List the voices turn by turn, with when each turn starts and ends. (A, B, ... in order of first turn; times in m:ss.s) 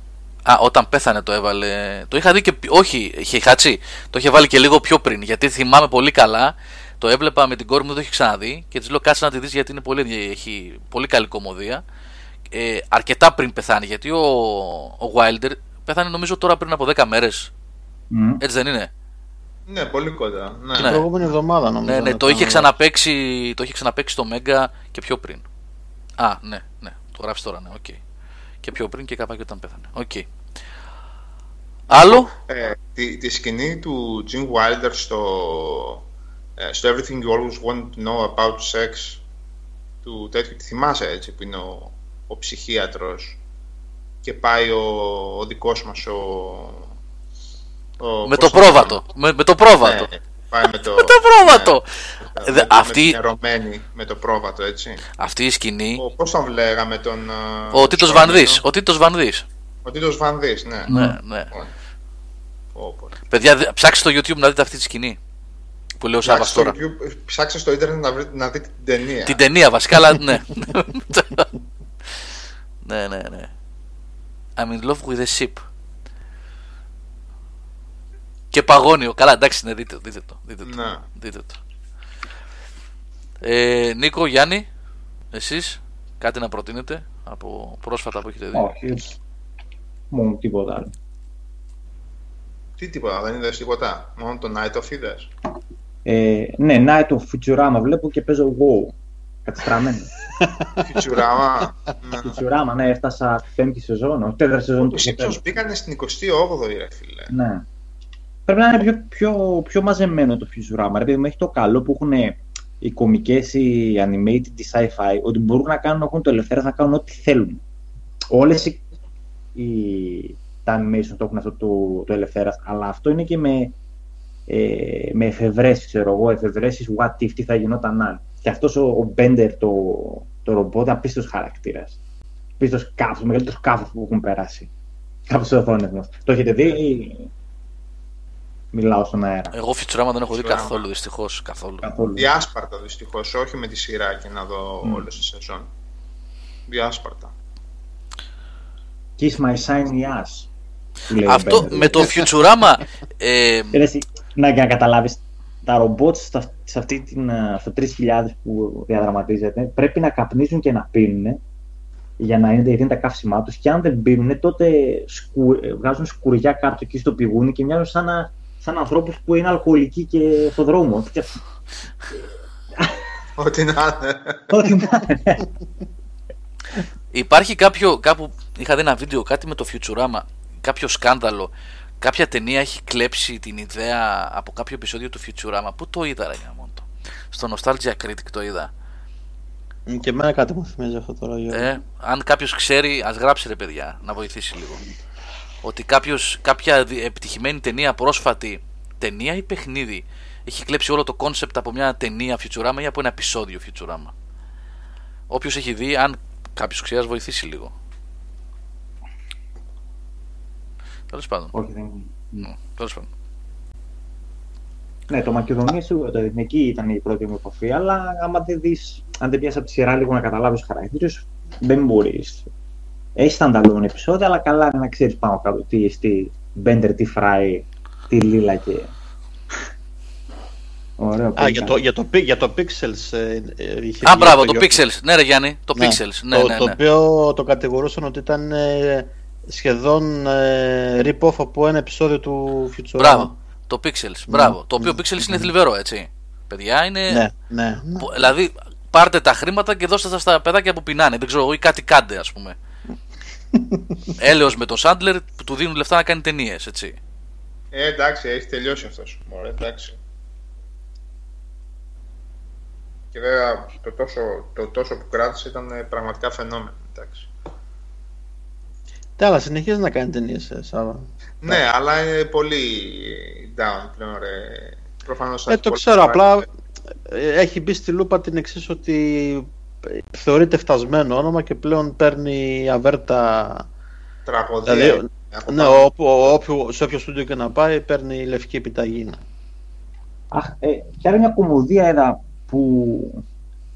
0:00.5-0:11.8 A
0:12.5-0:17.5 A
0:18.1-0:18.4 B
0:18.4-0:18.9 A
0:19.7-0:21.1 C
0:20.8-0:21.1 A
0:20.8-0:22.7 D
0:21.8-0:25.4 A
0:26.2-0:28.0 A
0:28.6-0:30.3 A
0:31.9-0:32.3 A
0:31.9-0:36.0 C
0:36.6-0:39.2 C
0:40.0-0:43.4 C
0:44.2-0:46.9 C
0:48.0-0:49.0 C
0:48.2-0:50.1 A
0:49.8-0:55.0 C
0:51.0-0:51.9 A
0:52.4-0:53.2 A
0:55.2-0:56.0 A
0:56.0-0:58.6 C
0:57.7-0:59.4 A
0:59.8-1:00.9 C
1:00.9-1:01.5 A
1:00.9-1:01.2 B
1:02.8-1:03.2 C
1:03.3-1:05.2 A
1:06.0-1:06.8 A
1:06.2-1:09.4 C
1:09.3-1:11.5 A
1:12.8-1:13.5 A
1:14.6-1:15.6 A
1:18.5-1:21.6 A
1:20.6-1:21.0 C
1:23.4-1:24.7 A
1:25.3-1:28.7 A
1:28.5-1:29.2 B
1:30.1-1:30.9 B
1:32.8-1:35.3 C
1:36.0-1:40.2 B
1:40.8-1:42.4 C
1:42.1-1:45.4 B
1:44.8-1:47.3 C
1:47.3-1:47.7 B
1:48.5-1:57.6 B
1:58.3-1:58.8 B
1:59.6-2:03.8 B
2:04.5-2:12.0 B
2:12.6-2:14.7 B
2:15.3-2:17.3 B
2:18.7-2:19.5 B
2:19.5-2:21.9 A
2:20.3-2:20.8 C
2:21.8-2:22.3 B
2:22.2-2:25.7 C
2:26.7-2:27.3 C
2:29.2-2:30.5 B
2:31.1-2:32.1 B
2:31.3-2:33.8 A
2:33.7-2:41.4 B
2:42.2-2:51.4 B
2:53.4-2:54.7 C
2:54.5-2:55.4 B
2:57.1-3:08.7 A
3:09.9-3:11.7 D
3:11.5-3:14.8 A
3:15.6-3:24.1 A
3:25.3-3:27.7 A
3:31.1-3:31.5 A
3:31.5-3:32.5 B
3:32.4-3:33.1 A
3:35.1-3:42.5 B
3:43.2-3:48.9 B
3:51.0-3:51.8 B
3:51.4-3:54.8 D
3:54.0-3:56.8 A
3:55.8-4:03.3 D
4:03.0-4:07.2 A
4:04.3-4:05.5 D
4:07.1-4:08.3 D
4:08.0-4:12.6 A
4:13.5-4:14.1 D
4:14.2-4:17.0 A
4:17.7-4:20.0 C
4:23.1-4:27.3 C
4:29.2-4:31.6 D
4:31.4-4:36.3 C
4:35.5-4:36.5 D
4:37.1-4:43.7 D
4:44.3-4:45.9 C
4:44.7-4:49.2 D
4:50.3-4:53.2 B